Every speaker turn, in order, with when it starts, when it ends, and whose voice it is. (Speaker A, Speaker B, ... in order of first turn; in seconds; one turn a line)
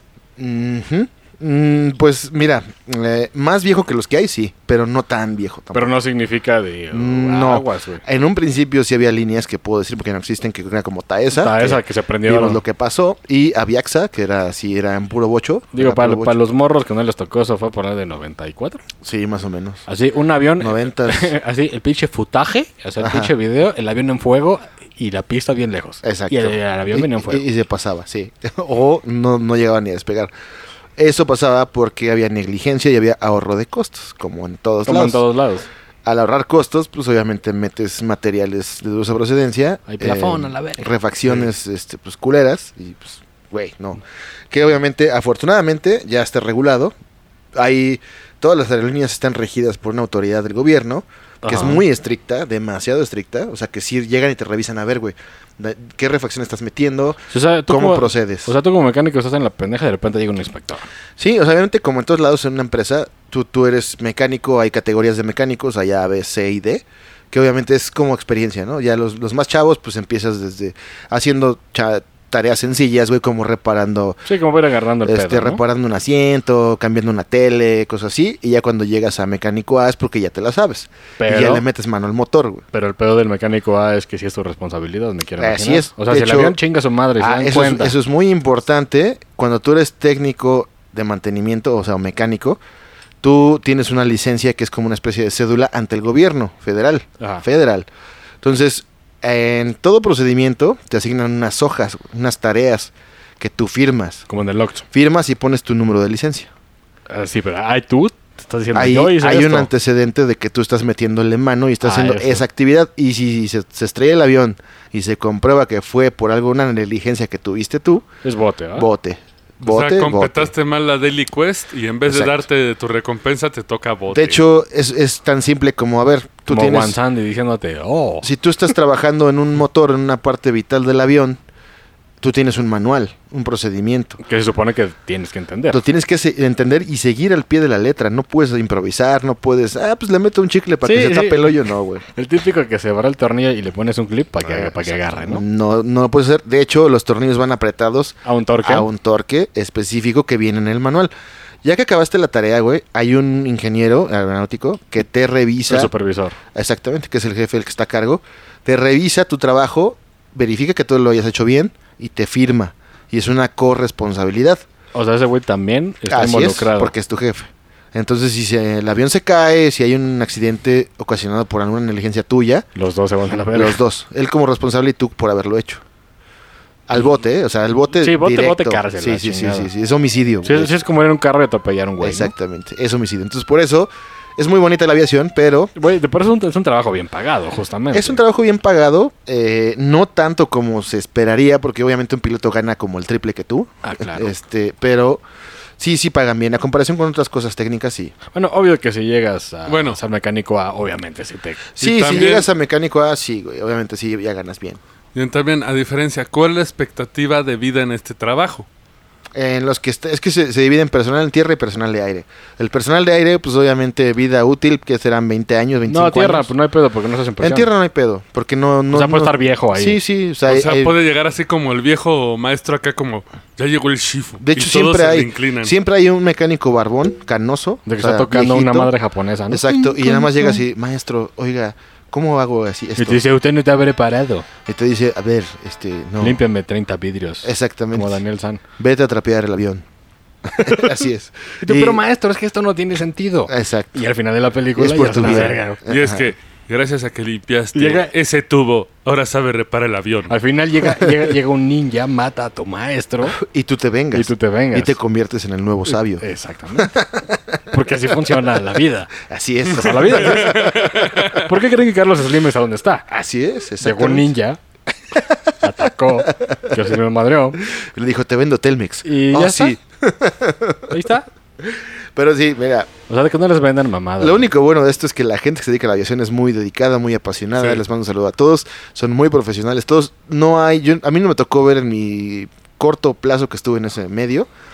Speaker A: 0.4-5.9
Speaker B: 5.7-8.0
Speaker A: 6.9-16.4
Speaker B: 11.3-12.6
Speaker B: 15.7-18.8
Speaker A: 19.0-19.9
Speaker B: 19.9-27.4
Speaker A: 20.6-21.3
Speaker A: 23.0-23.3
Speaker A: 26.0-30.3
Speaker A: 31.0-35.2
Speaker B: 34.9-35.7
Speaker A: 36.0-44.0
Speaker B: 39.9-41.5
Speaker A: 44.5-46.9
Speaker A: 47.5-58.5
Speaker B: 51.4-51.8
Speaker B: 57.3-60.9
Speaker A: 61.2-74.2
Speaker B: 74.2-75.6
Speaker A: 75.0-82.6
Speaker B: 81.2-81.6
Speaker B: 82.7-88.0
Speaker A: 85.4-86.6
Speaker A: 87.2-92.6
Speaker A: 93.2-97.9
Speaker B: 97.2-97.4
Speaker A: 98.4-104.2
Speaker B: 104.3-104.8
Speaker A: 104.9-106.5
Speaker B: 107.1-109.7
Speaker A: 108.7-118.1
Speaker B: 111.8-112.4
Speaker B: 118.2-118.9
Speaker A: 118.8-120.5
Speaker C: 119.6-124.4
Speaker A: 122.1-122.4
Speaker A: 124.1-127.0
Speaker B: 126.5-128.3
Speaker A: 128.2-131.4
Speaker A: 132.2-134.2
Speaker B: 134.2-135.8
Speaker A: 135.7-142.0
Speaker B: 140.8-141.5
Speaker B: 142.1-145.4
Speaker A: 144.4-151.1
Speaker B: 148.2-148.9
Speaker A: 151.6-155.9
Speaker B: 155.7-156.4
Speaker A: 156.5-164.6
Speaker B: 164.9-166.9
Speaker A: 166.1-172.7
Speaker B: 172.7-173.8
Speaker A: 173.5-175.8
Speaker A: 176.9-180.7
Speaker B: 178.0-179.7
Speaker B: 180.4-182.3
Speaker A: 182.0-185.7
Speaker B: 185.8-188.2
Speaker A: 187.9-195.2
Speaker B: 193.8-194.3
Speaker A: 195.8-198.1
Speaker B: 198.3-201.7
Speaker C: 199.7-200.0
Speaker A: 201.8-204.8
Speaker C: 201.8-202.5
Speaker C: 205.1-208.7
Speaker A: 209.3-216.5
Speaker B: 215.9-217.7
Speaker A: 217.4-220.9
Speaker B: 218.9-220.0
Speaker C: 220.5-225.8
Speaker A: 224.4-228.9
Speaker B: 227.8-230.3
Speaker A: 229.5-233.2
Speaker B: 233.0-234.5
Speaker A: 234.7-236.4
Speaker B: 236.2-238.6
Speaker A: 237.4-238.2
Speaker A: 238.8-239.8
Speaker A: 240.4-242.0
Speaker B: 241.6-245.8
Speaker A: 243.5-244.0
Speaker A: 244.8-246.3
Speaker C: 245.9-250.3
Speaker B: 247.7-248.1
Speaker B: 250.3-253.4
Speaker A: 253.3-256.2
Speaker B: 254.1-254.9
Speaker B: 256.2-256.9
Speaker A: 256.7-257.6
Speaker B: 257.7-259.1
Speaker A: 259.2-261.2
Speaker B: 259.7-263.1
Speaker C: 260.2-261.4
Speaker A: 263.1-264.3
Speaker B: 263.8-264.6
Speaker A: 265.1-265.5
Speaker B: 265.6-267.6
Speaker A: 266.4-266.8
Speaker A: 267.7-271.0
Speaker B: 269.0-269.8
Speaker B: 270.9-271.2
Speaker A: 271.6-272.9
Speaker B: 273.1-274.5
Speaker A: 274.2-284.5